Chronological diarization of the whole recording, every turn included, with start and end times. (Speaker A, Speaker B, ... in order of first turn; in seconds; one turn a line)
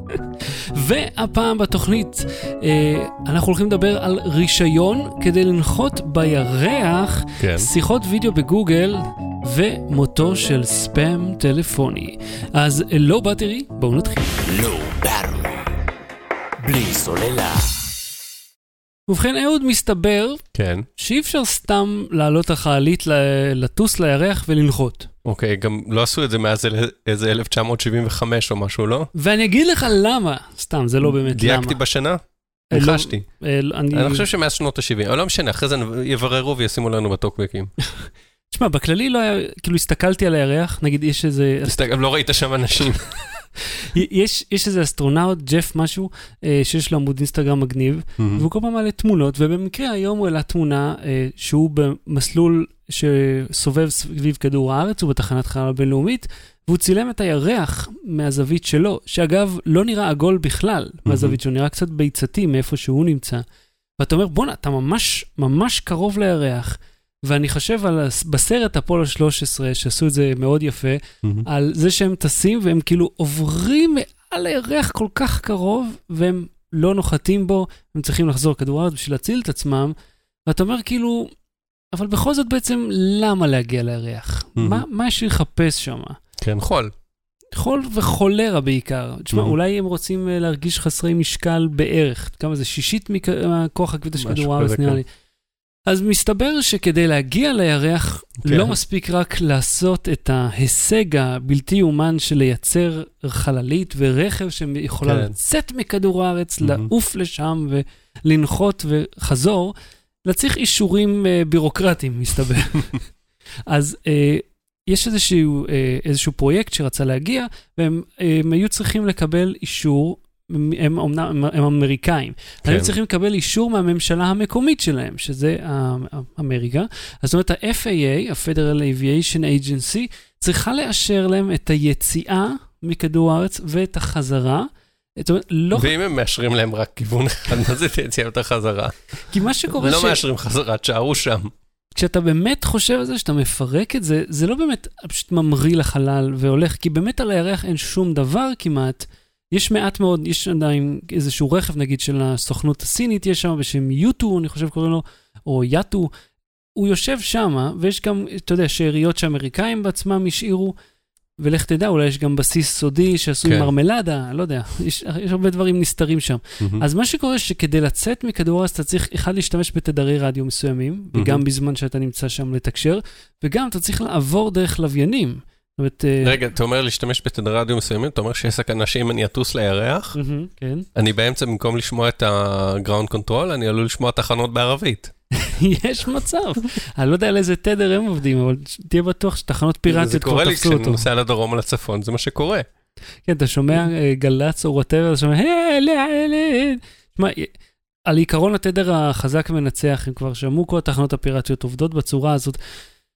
Speaker A: 0.4-14.3
Speaker B: 7.4-7.7
Speaker C: 14.4-15.7
Speaker C: 16.6-17.9
Speaker A: 19.1-20.4
Speaker B: 20.5-20.9
Speaker A: 21.0-25.1
Speaker B: 25.2-29.1
Speaker A: 29.1-31.8
Speaker B: 31.0-32.2
Speaker A: 32.7-34.3
Speaker B: 32.7-33.2
Speaker B: 33.9-37.7
Speaker A: 37.9-41.8
Speaker B: 41.6-43.1
Speaker A: 43.8-63.5
Speaker B: 48.2-48.5
Speaker B: 61.1-61.4
Speaker A: 64.0-79.9
Speaker A: 80.5-81.3
Speaker A: 81.9-86.2
Speaker B: 84.6-84.8
Speaker B: 86.4-86.9
Speaker A: 87.5-95.0
Speaker B: 94.2-95.0
Speaker A: 95.9-109.7
Speaker B: 98.4-98.8
Speaker B: 105.0-105.3
Speaker B: 106.6-106.9
Speaker A: 110.3-113.0
Speaker A: 113.7-135.9
Speaker B: 122.6-122.9
Speaker B: 135.8-138.9
Speaker A: 139.3-140.2
Speaker B: 139.7-141.5
Speaker A: 141.9-156.1
Speaker A: 156.8-160.7
Speaker A: 161.4-176.4
Speaker B: 163.4-163.7
Speaker B: 171.1-171.4
Speaker B: 176.2-180.2
Speaker A: 180.1-180.9
Speaker B: 180.9-185.1
Speaker A: 185.3-191.1
Speaker B: 189.9-192.7
Speaker A: 193.3-197.5
Speaker A: 198.1-202.6